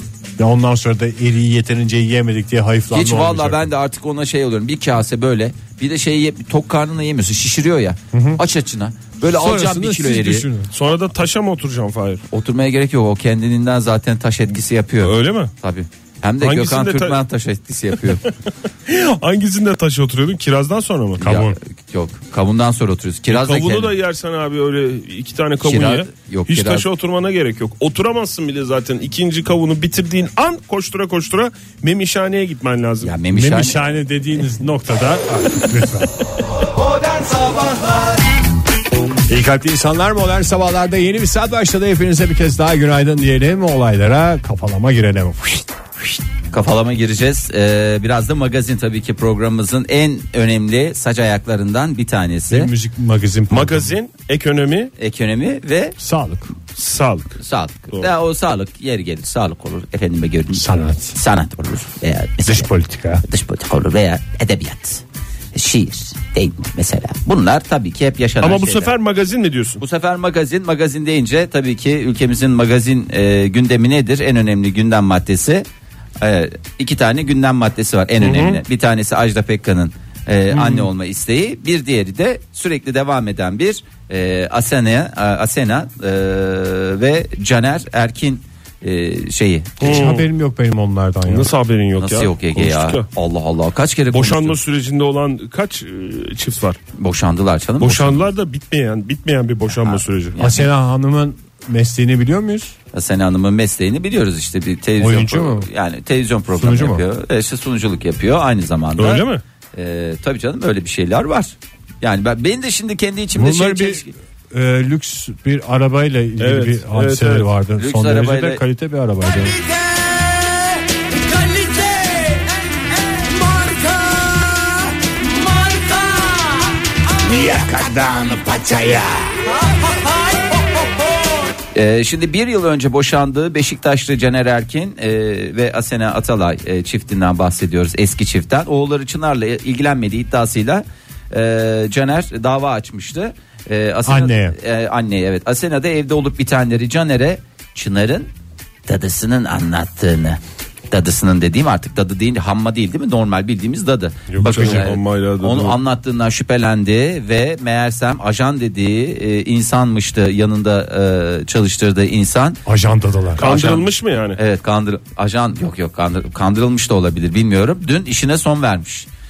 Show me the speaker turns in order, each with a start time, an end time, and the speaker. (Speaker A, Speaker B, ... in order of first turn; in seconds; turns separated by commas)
Speaker A: 0.4-3.7, Speaker B: 2.9-10.5, Speaker A: 8.1-8.4, Speaker A: 9.2-10.7, Speaker C: 10.7-12.2, Speaker B: 12.3-18.2, Speaker C: 15.0-15.5, Speaker C: 16.4-17.2, Speaker C: 18.9-21.2, Speaker B: 21.2-23.9, Speaker A: 21.2-21.6, Speaker C: 23.3-33.2, Speaker B: 25.6-26.9, Speaker B: 33.0-33.8, Speaker A: 33.3-36.1, Speaker A: 39.3-45.7, Speaker B: 46.5-52.7, Speaker A: 52.5-53.9, Speaker C: 53.5-54.9, Speaker B: 55.0-56.0, Speaker A: 56.0-56.5, Speaker C: 56.8-57.4, Speaker B: 57.4-62.7, Speaker A: 60.5-61.2, Speaker A: 62.5-63.2, Speaker B: 63.2-65.0, Speaker B: 65.5-68.9, Speaker C: 68.4-69.8, Speaker B: 69.8-75.7, Speaker B: 76.2-90.1, Speaker C: 78.2-78.6, Speaker C: 80.5-80.8, Speaker C: 89.8-90.3, Speaker A: 89.8-91.5, Speaker C: 91.3-93.1, Speaker B: 92.0-94.6, Speaker C: 94.1-96.8, Speaker B: 97.0-98.2, Speaker C: 97.8-100.4, Speaker B: 99.7-100.7, Speaker A: 100.4-102.7, Speaker B: 102.9-114.1, Speaker A: 105.0-105.7, Speaker A: 106.5-107.0, Speaker C: 109.0-109.4, Speaker A: 113.3-119.6, Speaker C: 116.4-117.5, Speaker B: 117.8-118.6, Speaker B: 121.5-122.3, Speaker B: 123.6-124.7, Speaker B: 127.2-129.4, Speaker B: 131.7-148.3, Speaker A: 144.1-144.6, Speaker B: 148.9-162.6, Speaker A: 154.3-154.8, Speaker C: 154.4-155.8, Speaker A: 162.7-163.4, Speaker C: 163.4-164.4, Speaker B: 163.4-169.1